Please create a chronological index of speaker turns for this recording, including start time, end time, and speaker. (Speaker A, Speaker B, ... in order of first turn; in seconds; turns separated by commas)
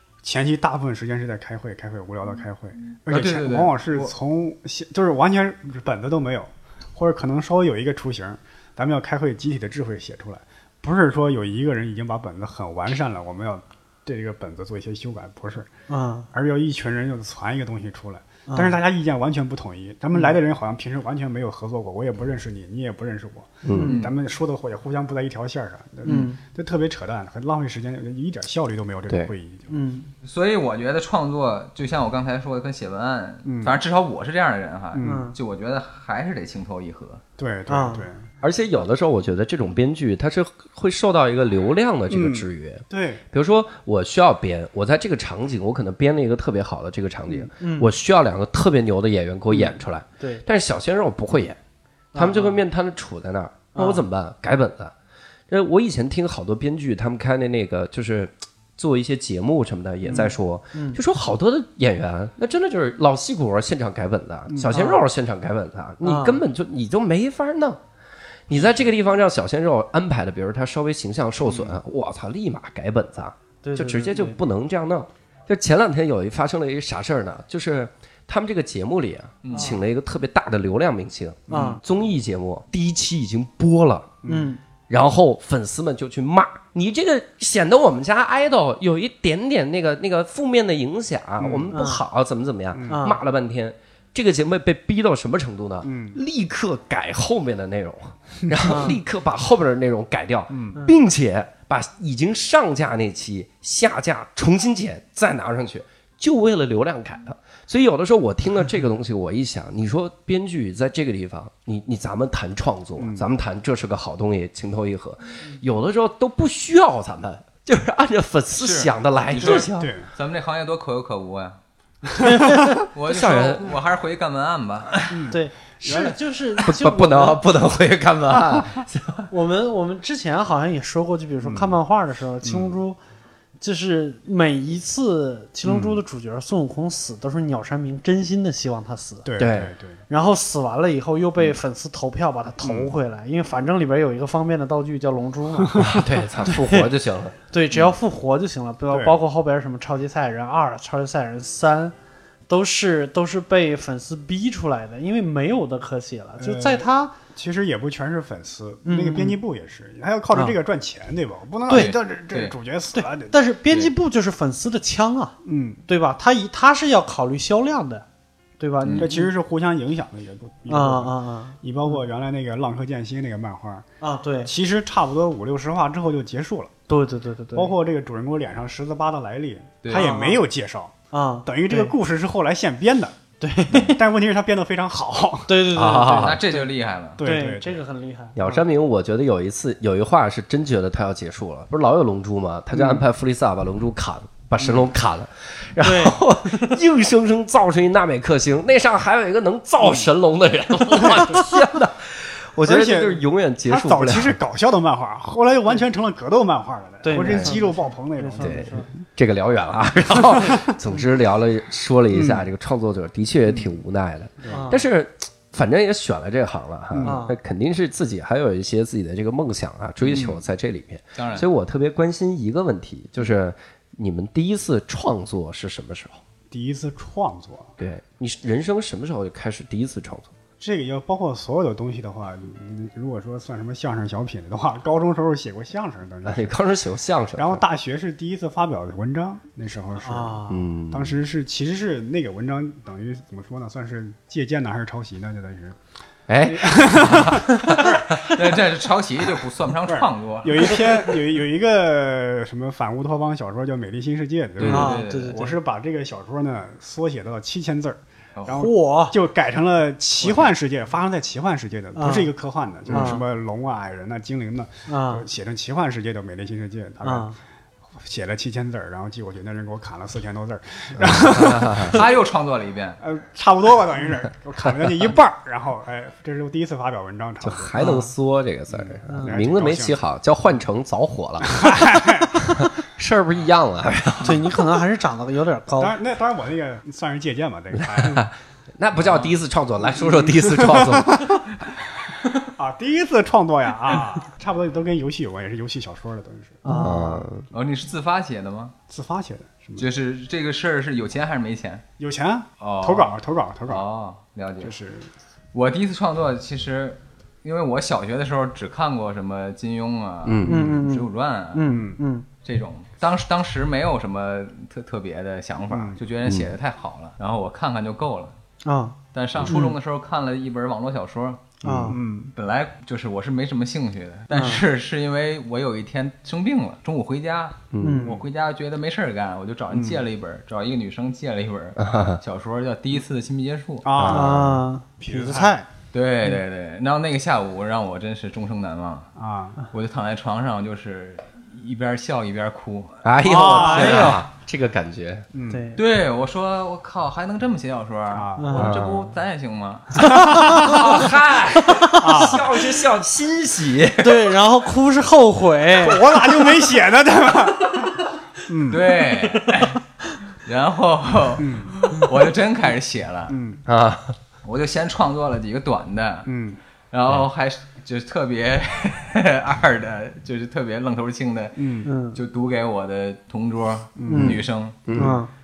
Speaker A: 0.2-15.7, Speaker B: 3.1-4.1, Speaker C: 15.9-16.3, Speaker A: 16.3-29.7, Speaker C: 18.5-18.8, Speaker D: 23.6-23.9, Speaker C: 23.7-24.0, Speaker B: 23.9-24.1, Speaker C: 26.1-26.4, Speaker C: 29.7-30.1, Speaker B: 30.2-37.2, Speaker A: 33.5-33.8, Speaker A: 34.9-35.3, Speaker C: 35.0-35.4, Speaker A: 37.4-38.3, Speaker C: 37.7-38.1, Speaker D: 38.4-51.6, Speaker A: 42.1-43.2, Speaker C: 47.3-47.9, Speaker C: 50.2-50.4, Speaker C: 52.1-52.6, Speaker D: 52.1-54.9, Speaker C: 53.8-54.0, Speaker D: 55.5-67.8, Speaker C: 60.0-61.0, Speaker A: 64.5-64.8, Speaker C: 64.7-65.0, Speaker C: 66.0-66.4, Speaker D: 68.5-84.2, Speaker A: 71.4-71.8, Speaker C: 73.6-74.4, Speaker B: 79.4-79.8, Speaker C: 79.5-79.8, Speaker A: 81.5-81.8, Speaker C: 81.5-81.8, Speaker A: 84.2-84.5, Speaker C: 84.3-84.6, Speaker D: 84.9-119.9, Speaker A: 91.4-91.7, Speaker C: 91.7-92.0, Speaker A: 92.7-93.1, Speaker C: 92.9-93.2, Speaker A: 95.8-96.2, Speaker A: 98.5-98.8, Speaker C: 98.7-99.0, Speaker A: 100.5-100.8, Speaker A: 113.0-113.3, Speaker B: 118.6-121.6, Speaker A: 119.4-120.1, Speaker C: 122.2-122.7, Speaker B: 122.9-125.3, Speaker D: 123.0-123.7, Speaker A: 125.1-125.4, Speaker C: 125.3-127.4, Speaker D: 125.8-129.3, Speaker C: 129.3-133.0, Speaker A: 131.4-131.8, Speaker A: 132.4-132.8, Speaker C: 133.6-139.3, Speaker A: 135.7-136.0, Speaker A: 139.2-140.0, Speaker D: 139.4-139.7, Speaker C: 140.1-145.9, Speaker A: 142.6-142.9, Speaker A: 145.6-146.0, Speaker D: 145.8-147.3, Speaker C: 146.5-146.9, Speaker C: 147.5-151.9, Speaker A: 148.9-149.2, Speaker C: 152.5-157.2, Speaker A: 156.4-163.3, Speaker C: 158.8-159.4, Speaker C: 161.7-162.0, Speaker B: 161.7-162.6, Speaker C: 162.9-168.1, Speaker A: 165.4-165.8, Speaker C: 168.6-169.3, Speaker A: 169.0-173.8, Speaker C: 170.7-172.0, Speaker C: 174.0-174.5, Speaker A: 174.4-176.7, Speaker C: 176.9-177.7, Speaker A: 177.5-180.9, Speaker B: 179.8-180.1, Speaker C: 179.9-180.4, Speaker C: 181.1-181.9, Speaker A: 181.5-183.2, Speaker C: 183.4-184.0, Speaker A: 183.8-185.6, Speaker C: 185.5-186.6, Speaker D: 185.7-186.4, Speaker B: 186.0-187.2, Speaker A: 187.2-187.8, Speaker C: 187.2-188.6, Speaker D: 188.4-204.4, Speaker C: 195.8-196.7, Speaker A: 200.9-201.5, Speaker A: 202.6-208.7, Speaker C: 207.0-208.9, Speaker D: 207.1-207.5, Speaker D: 208.4-226.2, Speaker A: 212.1-212.5, Speaker A: 214.4-214.7, Speaker C: 214.5-214.8, Speaker A: 216.9-217.2, Speaker C: 217.0-217.4, Speaker A: 220.0-220.4, Speaker B: 221.2-221.5, Speaker A: 226.5-227.7, Speaker D: 227.8-230.3, Speaker A: 230.6-236.6, Speaker D: 236.2-237.6, Speaker A: 237.4-245.8, Speaker C: 240.0-240.7, Speaker D: 240.5-241.2, Speaker D: 246.3-248.4, Speaker A: 246.4-248.1, Speaker B: 248.1-251.1, Speaker A: 249.9-267.3, Speaker B: 254.6-255.4, Speaker C: 254.7-255.6, Speaker C: 258.5-259.2, Speaker B: 260.2-260.5, Speaker C: 262.0-262.3, Speaker C: 262.9-263.2, Speaker C: 264.9-265.3, Speaker C: 267.0-267.4, Speaker A: 268.0-272.1, Speaker D: 271.0-272.0, Speaker B: 271.8-273.0, Speaker A: 273.0-277.7, Speaker D: 277.4-284.6, Speaker C: 277.8-278.1, Speaker A: 278.7-280.0, Speaker C: 279.1-279.4, Speaker A: 281.4-282.5, Speaker C: 284.2-286.0, Speaker A: 285.8-288.2, Speaker D: 287.7-291.4, Speaker A: 290.0-291.4, Speaker A: 292.4-296.9, Speaker C: 296.6-297.2, Speaker D: 296.7-297.4, Speaker B: 297.5-298.8, Speaker A: 298.9-299.9, Speaker B: 299.8-301.8, Speaker A: 302.0-303.8, Speaker B: 302.6-304.7, Speaker A: 304.6-305.1, Speaker B: 305.5-311.8, Speaker D: 310.2-310.8, Speaker C: 310.4-312.3, Speaker A: 311.7-312.0, Speaker B: 312.4-318.4, Speaker A: 315.7-316.0, Speaker D: 316.3-316.5, Speaker C: 318.6-319.8, Speaker B: 319.1-321.6, Speaker C: 321.6-322.0, Speaker D: 321.6-322.0, Speaker A: 321.9-322.3, Speaker B: 322.4-333.9, Speaker C: 324.3-324.6, Speaker D: 327.7-328.1, Speaker C: 327.8-328.2, Speaker A: 329.7-330.0, Speaker D: 331.8-332.2, Speaker A: 333.8-335.6, Speaker D: 333.9-334.4, Speaker C: 334.1-335.7, Speaker B: 335.9-339.1, Speaker A: 339.2-339.6, Speaker B: 339.7-343.0, Speaker D: 343.0-345.3, Speaker A: 343.2-344.2, Speaker C: 343.4-344.2, Speaker A: 345.3-345.7, Speaker C: 345.5-345.8, Speaker B: 345.8-350.1, Speaker A: 348.1-348.8, Speaker C: 348.4-348.7, Speaker D: 348.6-349.1, Speaker C: 350.0-351.0, Speaker A: 350.0-350.8, Speaker D: 350.5-354.2, Speaker C: 351.6-352.4, Speaker A: 352.0-352.5, Speaker C: 354.0-356.0, Speaker A: 355.8-358.9, Speaker B: 358.7-359.8, Speaker B: 360.4-363.4, Speaker A: 361.4-361.9, Speaker A: 363.3-363.6, Speaker D: 363.7-364.2, Speaker B: 364.4-366.3, Speaker A: 366.3-366.6, Speaker B: 366.9-374.8, Speaker A: 371.6-371.9, Speaker C: 371.9-372.2, Speaker A: 374.0-374.4, Speaker C: 374.1-374.4, Speaker D: 374.9-375.2, Speaker C: 374.9-375.3